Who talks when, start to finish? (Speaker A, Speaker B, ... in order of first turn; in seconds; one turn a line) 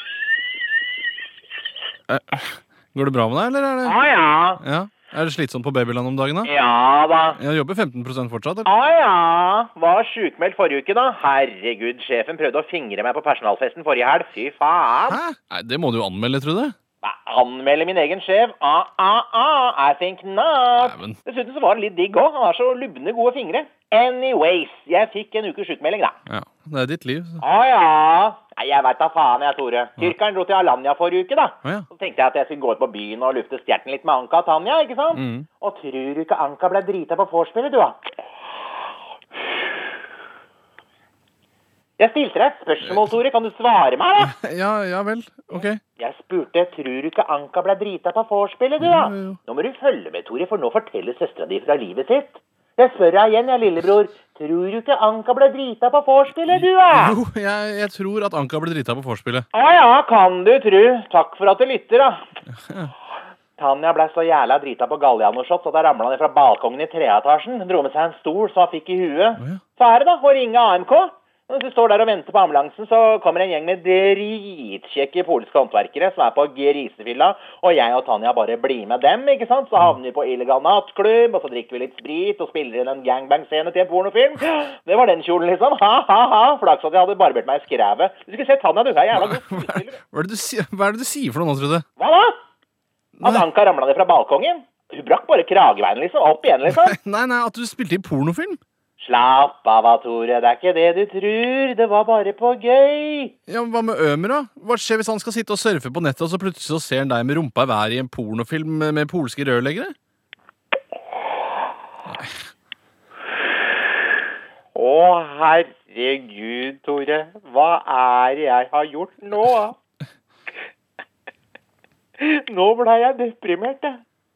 Speaker A: 2.1-4.0
Speaker B: 3.8-4.6
Speaker A: 4.6-6.5
Speaker B: 6.4-7.4
Speaker A: 7.4-8.7
Speaker B: 8.7-15.2
Speaker A: 15.1-16.8
Speaker B: 17.0-26.1
Speaker A: 20.8-21.2
Speaker A: 26.3-27.4
Speaker B: 27.4-38.0
Speaker A: 35.1-35.5
Speaker B: 42.0-44.4
Speaker A: 44.2-45.8
Speaker B: 46.0-57.2
Speaker A: 48.8-49.4
Speaker A: 56.9-59.5
Speaker B: 59.5-62.2
Speaker A: 62.6-62.9
Speaker B: 63.6-90.0
Speaker A: 89.1-91.8
Speaker B: 92.0-92.4
Speaker A: 93.2-93.5
Speaker B: 93.2-97.0
Speaker A: 96.7-98.6
Speaker B: 99.0-103.3
Speaker A: 103.5-109.9
Speaker B: 114.7-119.8
Speaker B: 122.2-124.0